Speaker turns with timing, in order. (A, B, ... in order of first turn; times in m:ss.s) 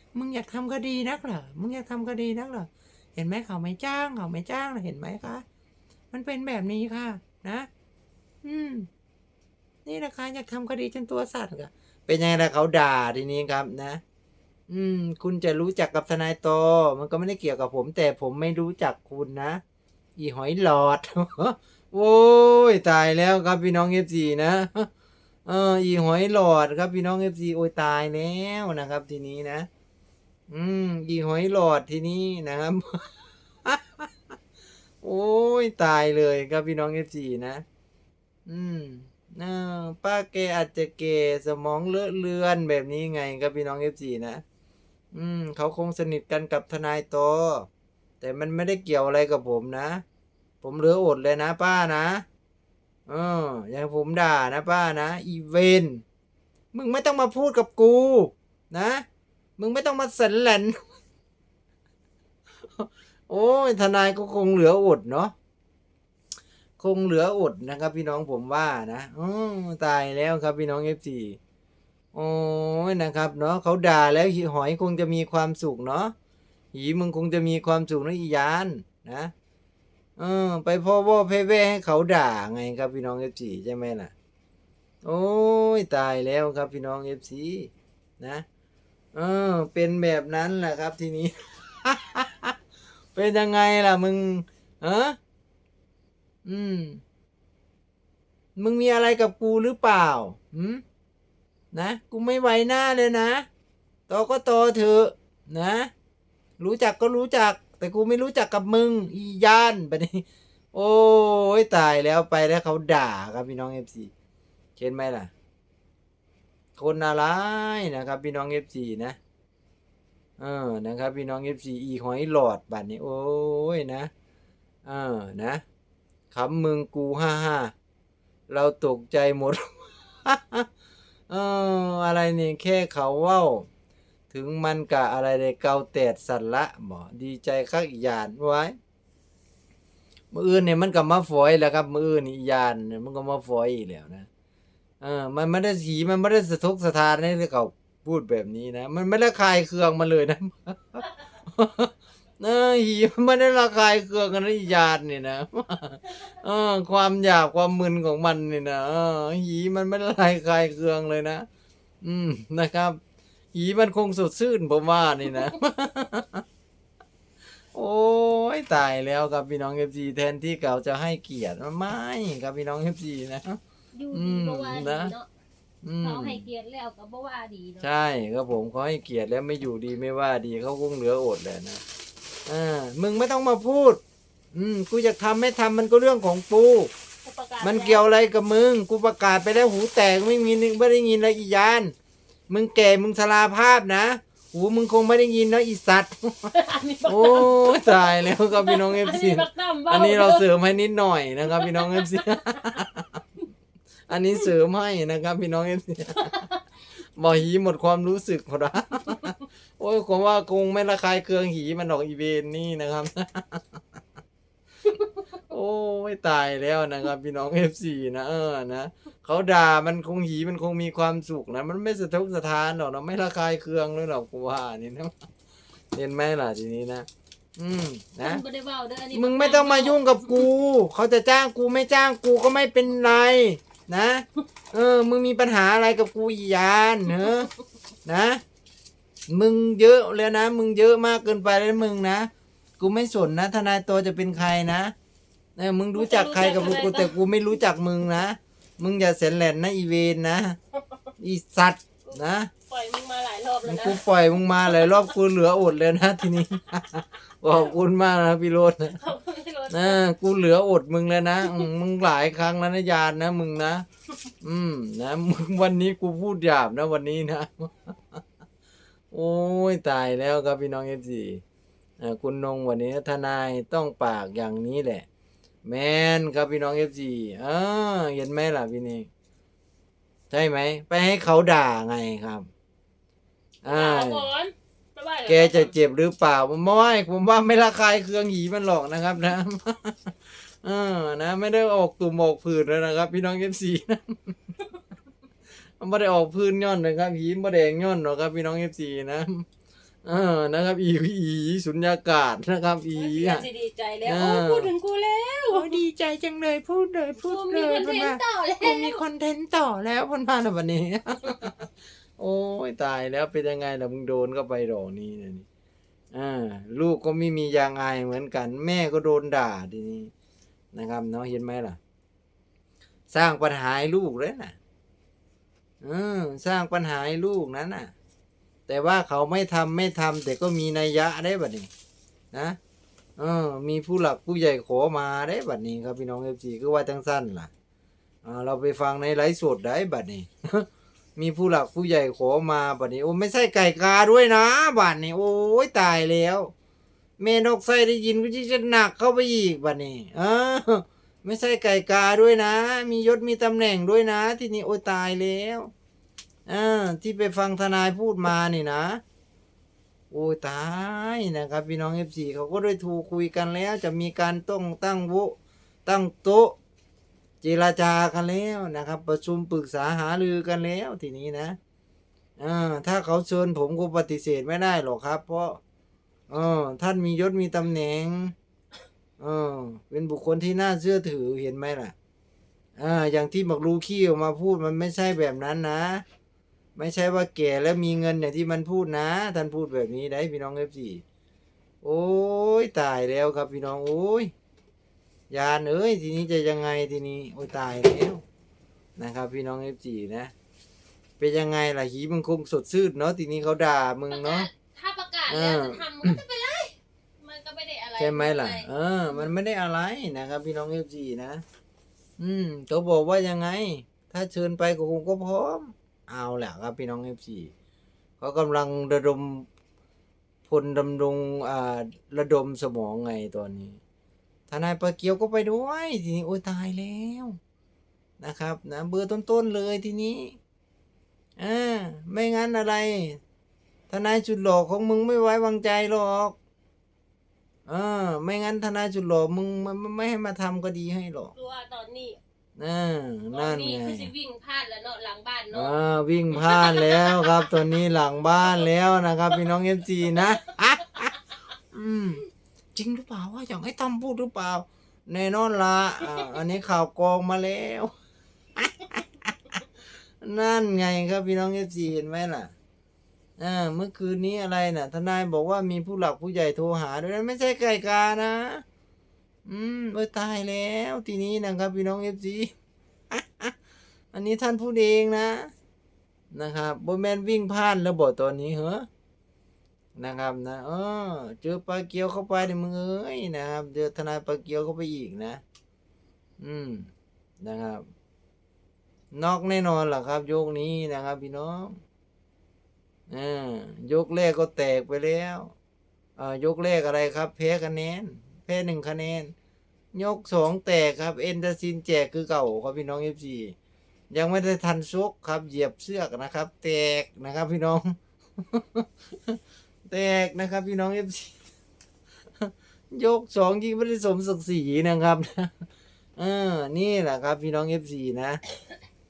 0:00.1-0:05.4 A
0:06.1-0:07.7 A
0:08.4-0:08.9 A
0:09.8-0:14.0 A
0:14.7-0:19.6 A
0:20.2-0:24.9 A
0:25.4-0:29.7 A
0:30.5-0:34.1 A
0:35.0-0:37.6 A
0:38.5-0:44.4 A
0:45.1-0:47.7 A
0:48.2-0:50.0 A
0:50.6-0:52.2 A
0:53.1-0:56.0 A
0:56.7-0:59.0 A
0:59.6-1:00.9 A
1:02.8-1:05.3 A
1:06.8-1:11.4 A
1:12.1-1:16.1 A
1:16.7-1:19.3 A
1:20.2-1:24.1 A
1:25.0-1:28.4 A
1:29.1-1:32.6 A
1:33.1-1:35.2 A
1:36.4-1:37.0 A
1:38.6-1:40.8 A
1:41.7-1:43.5 A
1:44.1-1:45.9 A
1:46.6-1:54.1 A
1:54.8-1:55.3 A
1:56.7-1:59.2 A
2:00.4-2:04.1 A
2:04.8-2:05.6 A
2:06.3-2:07.7 A
2:08.5-2:10.7 A
2:11.3-2:13.7 A
2:14.3-2:18.8 A
2:20.3-2:24.3 A
2:25.0-2:41.5 A
2:42.0-2:43.0 A
2:43.5-2:46.4 A
2:47.7-2:53.6 A
2:53.9-2:55.3 B
2:54.1-2:55.1 A
2:55.8-2:56.4 A
2:56.0-2:57.9 B
2:57.8-3:01.8 A
3:02.4-3:04.0 A
3:04.5-3:06.9 A
3:07.2-3:08.0 B
3:07.6-3:11.9 A
3:12.5-3:23.2 A
3:16.5-3:20.5 B
3:21.5-3:22.8 B
3:24.1-3:26.4 A
3:26.2-3:26.6 B
3:27.2-3:33.8 A
3:35.5-3:45.1 A
3:45.9-3:48.4 A
3:48.2-3:50.4 B
3:49.1-3:57.5 A
3:58.0-3:58.4 A
3:59.3-4:04.9 A
4:05.6-4:10.6 A
4:05.9-4:07.2 B
4:11.2-4:12.5 A
4:12.0-4:14.0 B
4:13.6-4:19.0 A
4:14.5-4:15.1 B
4:18.9-4:20.0 B
4:19.7-4:23.8 A
4:21.4-4:21.7 B
4:24.4-4:28.2 A
4:29.1-4:31.4 A
4:32.0-4:35.0 A
4:35.6-4:39.1 A
4:40.3-4:42.5 A
4:43.6-4:44.3 A
4:43.6-4:45.7 B
4:45.3-4:54.4 A
4:55.8-4:59.4 A
5:00.0-5:03.4 A
5:02.9-5:05.8 B
5:04.0-5:04.7 A
5:05.5-5:15.4 A
5:07.2-5:09.0 B
5:16.1-5:20.1 A
5:20.7-5:21.8 A
5:23.1-5:24.6 A
5:25.8-5:27.9 A
5:28.7-5:31.7 A
5:32.3-5:32.6 A
5:33.2-5:37.5 A
5:38.2-5:46.5 A
5:47.2-5:55.7 A
5:56.5-5:59.0 A
6:00.1-6:06.6 A
6:07.4-6:11.6 A
6:12.4-6:15.6 A
6:16.3-6:18.3 A
6:19.2-6:21.9 A
6:22.8-6:26.0 A
6:26.8-6:31.0 A
6:31.8-6:34.3 A
6:35.3-6:38.2 A
6:39.0-6:40.3 A
6:41.2-6:44.5 A
6:44.1-6:49.3 B
6:45.3-6:46.2 A
6:48.0-6:51.4 A
6:52.2-6:57.5 A
6:58.2-6:59.5 A
7:00.5-7:03.8 A
7:04.5-7:07.4 A
7:08.2-7:10.4 A
7:11.4-7:13.2 A
7:13.9-7:16.3 A
7:17.6-7:21.3 A
7:21.3-7:22.2 B
7:22.6-7:24.1 A
7:23.3-7:25.7 B
7:25.5-7:37.9 A
7:26.3-7:27.5 B
7:38.6-7:39.3 A
7:40.2-7:42.5 A
7:43.4-7:48.6 A
7:49.4-7:52.5 A
7:53.1-7:53.5 A
7:54.1-7:55.5 A
7:56.3-7:58.8 A
8:00.0-8:05.4 A
8:06.4-8:06.9 A
8:07.4-8:07.8 A
8:09.1-8:11.8 A
8:13.1-8:15.5 A
8:16.2-8:19.3 A
8:19.9-8:23.6 A
8:24.1-8:31.3 A
8:32.4-8:35.5 A
8:36.2-8:38.4 A